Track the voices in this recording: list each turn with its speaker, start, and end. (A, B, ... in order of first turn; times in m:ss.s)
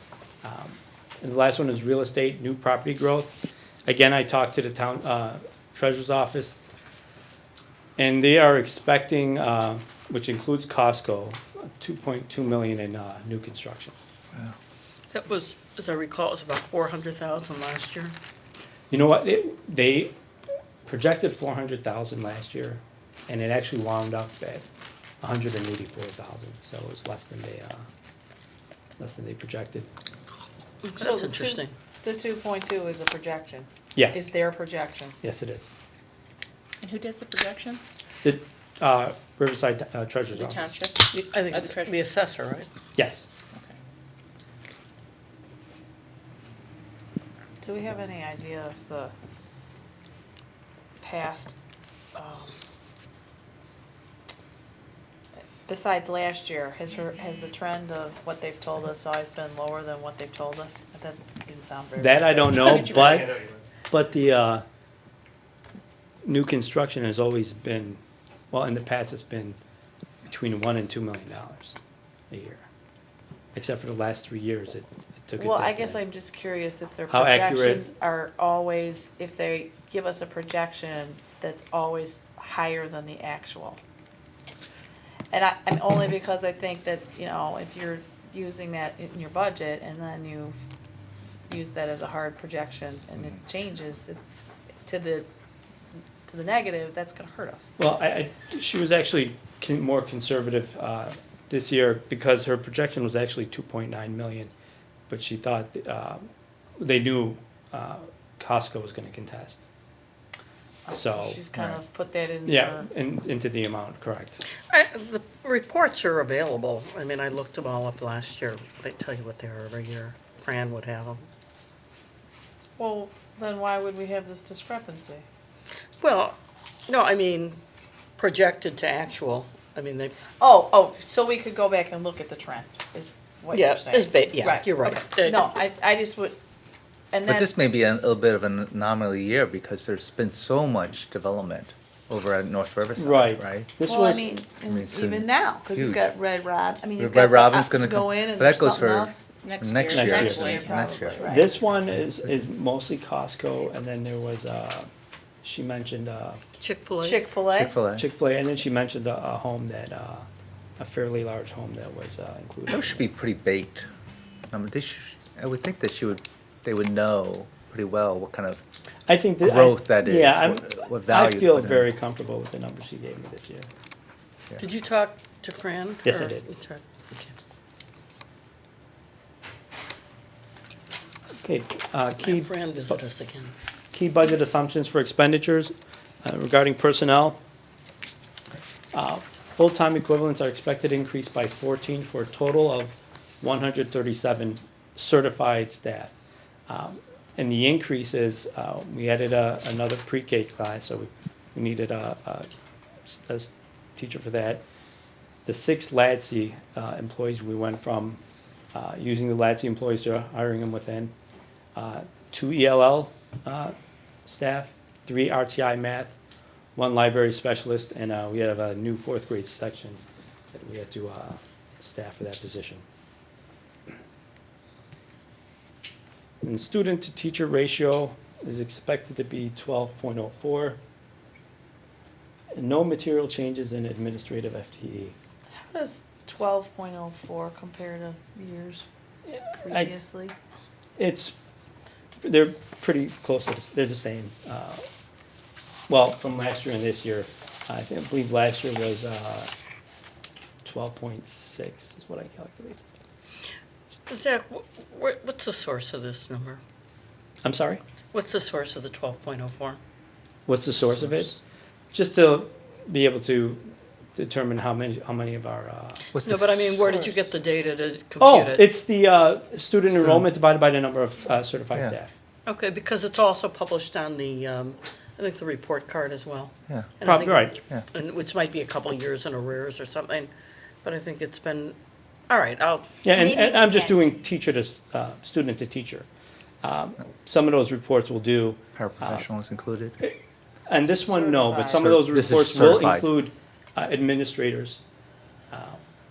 0:00.4-0:06.6 A
0:08.0-0:13.9 A
0:15.1-0:18.1 B
0:18.9-0:20.1 A
0:20.8-0:24.6 A
0:25.2-0:27.8 A
0:29.0-0:29.9 A
0:30.8-0:31.7 B
0:31.0-0:35.2 C
0:33.9-0:34.3 A
0:35.2-0:35.7 A
0:36.8-0:37.8 D
0:38.2-0:40.7 A
0:40.4-0:41.9 D
0:41.1-0:42.7 B
0:42.9-0:43.2 A
0:47.6-0:49.1 C
0:51.0-0:51.5 C
0:52.1-0:52.5 C
0:55.7-1:03.0 C
1:02.0-1:03.3 A
1:02.6-1:03.4 D
1:03.9-1:04.6 A
1:06.2-1:08.0 A
1:08.5-1:09.6 A
1:10.3-1:11.8 A
1:12.3-1:12.6 A
1:13.5-1:16.0 A
1:15.4-1:23.8 C
1:17.1-1:17.8 A
1:25.3-1:30.5 C
1:31.5-1:35.3 C
1:36.3-1:37.7 C
1:37.8-1:44.5 A
1:45.1-1:46.3 A
1:46.8-1:49.6 A
1:50.8-1:52.9 C
1:50.9-1:51.4 A
1:52.4-1:54.4 A
1:54.7-2:01.2 B
2:02.8-2:05.2 C
2:06.0-2:06.4 B
2:06.9-2:07.6 B
2:08.2-2:10.2 B
2:10.4-2:16.4 C
2:13.5-2:15.4 B
2:17.1-2:17.5 C
2:17.2-2:23.7 E
2:23.0-2:24.3 A
2:23.8-2:29.3 C
2:24.6-2:26.0 E
2:27.0-2:31.4 E
2:29.3-2:30.9 D
2:29.9-2:34.9 A
2:30.2-2:31.5 C
2:35.4-2:36.4 A
2:36.6-2:37.2 B
2:37.0-2:37.7 C
2:37.4-2:38.0 E
2:37.9-2:40.3 A
2:40.8-2:43.0 A
2:42.7-2:43.9 E
2:44.5-2:48.6 E
2:49.1-2:53.7 A
2:49.4-2:51.9 E
2:54.6-2:57.3 B
2:56.0-2:56.4 A
3:01.4-3:03.0 A
3:02.2-3:03.5 B
3:03.9-3:05.7 A
3:06.2-3:07.4 A
3:08.9-3:16.1 A
3:16.7-3:22.5 A
3:23.0-3:24.6 A
3:25.4-3:28.2 A
3:28.7-3:31.1 A
3:31.8-3:33.7 A
3:34.2-3:36.2 A
3:36.8-3:42.8 A
3:46.4-3:50.8 A
3:52.5-3:55.2 A
3:55.5-3:58.8 C
3:59.3-3:59.9 A
3:59.6-4:00.3 C
4:01.0-4:01.3 A
4:02.2-4:04.8 A
4:05.9-4:09.5 A
4:10.6-4:12.8 A
4:14.1-4:16.6 B
4:17.4-4:17.8 A
4:18.1-4:19.8 B
4:20.5-4:21.4 A
4:20.9-4:21.3 E
4:21.9-4:26.1 A
4:26.1-4:27.0 E
4:26.2-4:28.7 B
4:28.2-4:32.1 A
4:29.9-4:30.2 E
4:32.4-4:40.3 B
4:36.7-4:36.9 E
4:37.0-4:37.6 A
4:40.8-4:41.8 B
4:42.3-4:42.9 B
4:43.0-4:46.1 A
4:43.1-4:44.0 C
4:46.6-4:49.2 A
4:48.7-4:50.0 E
4:50.0-4:54.8 A
4:50.9-4:51.8 C
4:51.7-4:53.1 E
4:55.5-4:55.8 A